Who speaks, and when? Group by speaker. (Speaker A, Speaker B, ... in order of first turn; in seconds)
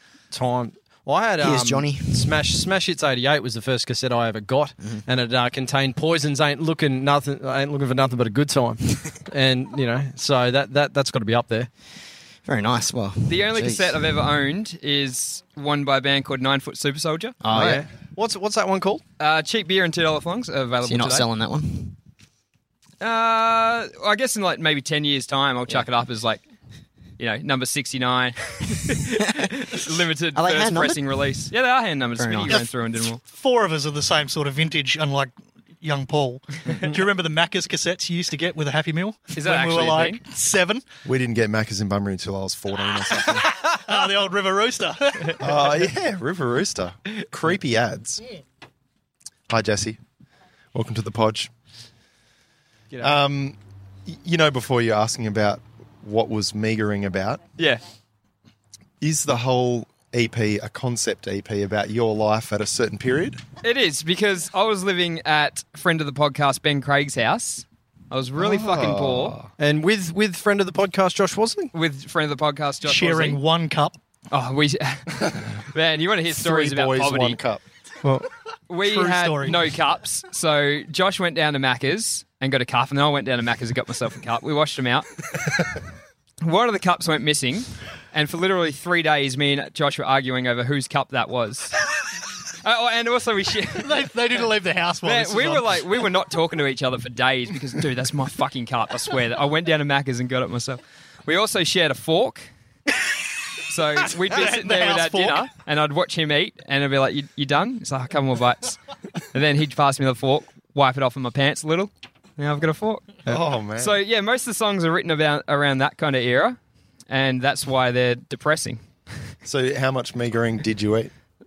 Speaker A: 0.3-11.7, 17.5-19.0, 69.6-71.7, 78.0-78.3
Speaker B: 1.4-2.3, 12.5-14.0, 17.4-17.9, 20.8-21.9, 29.3-31.1, 32.2-32.7
Speaker C: 13.3-17.4, 19.2-21.3, 23.0-26.4, 27.2-33.2, 39.4-40.2, 57.6-57.8, 63.6-69.4, 71.7-73.4, 74.3-77.4, 78.7-85.1, 86.4-91.8, 92.6-94.0, 95.0-102.5, 103.6-108.8, 109.3-113.2, 113.8-116.6, 117.1-118.8
Speaker D: 33.2-40.9, 43.3-45.5, 72.8-74.0, 78.8-79.7, 93.8-95.8, 104.2-105.5
Speaker E: 41.0-43.5, 45.4-48.2, 49.5-50.0, 50.7-51.5, 53.0-57.4, 59.0-63.4, 68.4-69.5, 75.2-75.5, 76.3-77.6, 113.3-114.0, 119.5-121.1